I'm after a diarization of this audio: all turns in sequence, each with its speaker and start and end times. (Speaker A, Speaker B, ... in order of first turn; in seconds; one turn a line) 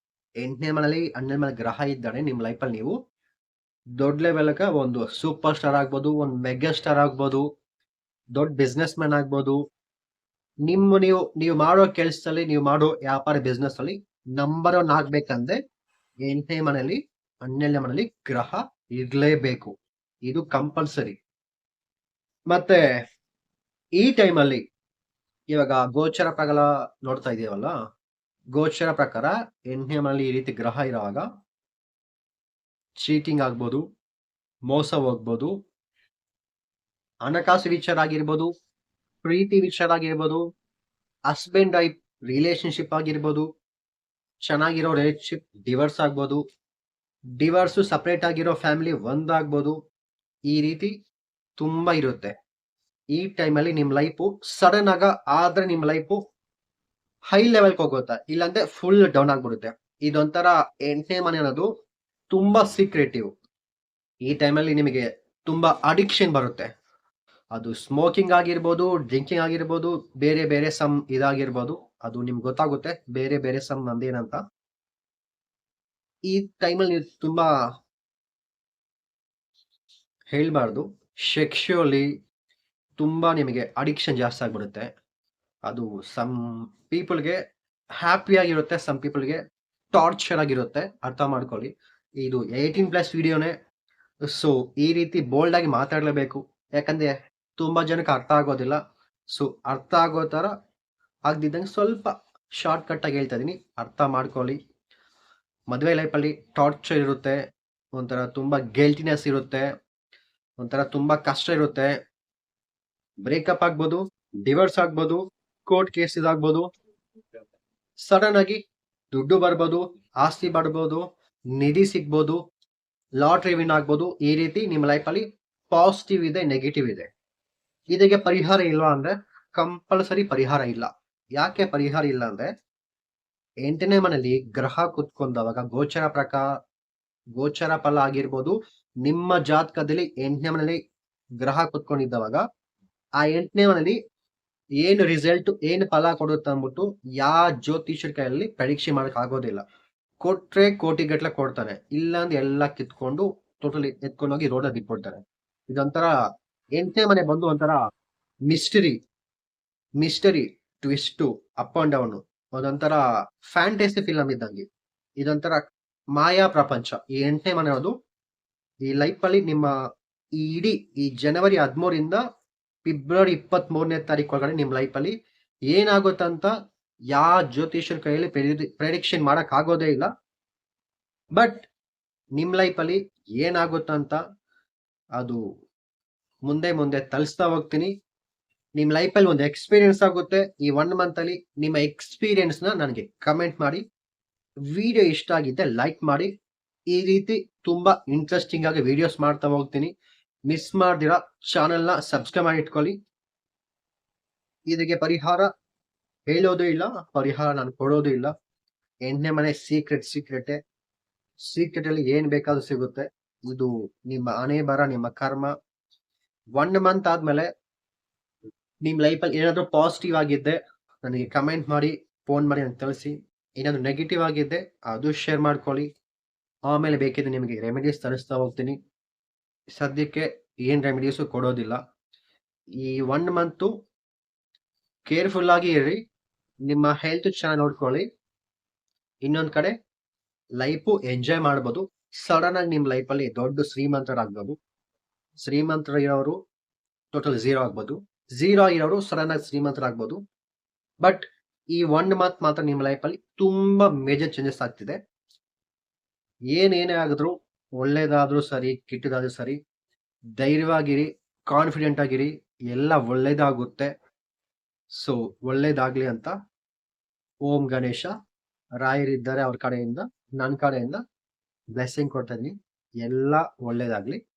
Speaker A: 0.4-2.9
Speaker A: 4.0-7.5
Speaker A: 8.3-9.6
Speaker A: 10.7-15.6
Speaker A: 16.2-19.7
Speaker A: 20.2-21.2
Speaker A: 22.5-22.8
Speaker A: 24.0-24.6
Speaker A: 25.5-27.7
Speaker A: 28.5-31.3
Speaker A: 33.0-33.8
Speaker A: 34.7-35.5
Speaker A: 37.2-38.5
Speaker A: 39.2-40.4
Speaker A: 41.3-43.5
Speaker A: 44.4-46.4
Speaker A: 47.4-49.8
Speaker A: 50.5-50.9
Speaker A: 51.6-52.3
Speaker A: 53.1-56.2
Speaker A: 57.3-61.7
Speaker A: 62.3-63.3
Speaker A: 64.2-66.7
Speaker A: 67.5-74.4
Speaker A: 76.3-77.5
Speaker A: 80.3-82.1
Speaker A: 83.0-84.9
Speaker A: 85.7-87.4
Speaker A: 88.0-89.4
Speaker A: 89.9-93.5
Speaker A: 94.3-98.8
Speaker A: 99.3-100.5
Speaker A: 101.3-104.6
Speaker A: 105.7-107.4
Speaker A: 107.9-109.7
Speaker A: 110.6-111.9
Speaker A: 113.2-116.7
Speaker A: 118.0-118.6
Speaker A: 119.1-121.0
Speaker A: 121.5-122.4
Speaker A: 123.2-127.1
Speaker A: 127.9-132.5
Speaker A: 133.6-136.5
Speaker A: 137.3-140.8
Speaker A: 141.4-142.4
Speaker A: 143.2-144.0
Speaker A: 144.8-149.6
Speaker A: 150.2-156.1
Speaker A: 156.7-157.8
Speaker A: 158.5-159.0
Speaker A: 160.0-164.6
Speaker A: 165.2-165.6
Speaker A: 166.1-167.9
Speaker A: 168.8-169.7
Speaker A: 170.4-172.2
Speaker A: 172.8-175.1
Speaker A: 175.7-176.5
Speaker A: 177.1-180.1
Speaker A: 181.3-181.7
Speaker A: 182.4-184.2
Speaker A: 186.4-187.9
Speaker A: 188.8-193.8
Speaker A: 194.7-196.3
Speaker A: 196.9-199.9
Speaker A: 200.5-202.9
Speaker A: 204.7-205.5
Speaker A: 206.3-208.3
Speaker A: 209.0-210.6
Speaker A: 211.4-215.5
Speaker A: 216.6-217.5
Speaker A: 218.8-225.9
Speaker A: 226.7-228.8
Speaker A: 229.7-231.8
Speaker A: 232.8-233.7
Speaker A: 235.1-236.0
Speaker A: 236.7-238.0
Speaker A: 239.2-239.7
Speaker A: 240.6-244.6
Speaker A: 245.4-246.4
Speaker A: 247.1-250.2
Speaker A: 251.0-254.9
Speaker A: 256.5-259.6
Speaker A: 260.4-263.9
Speaker A: 264.9-266.3
Speaker A: 267.4-268.1
Speaker A: 268.8-271.0
Speaker A: 271.7-274.2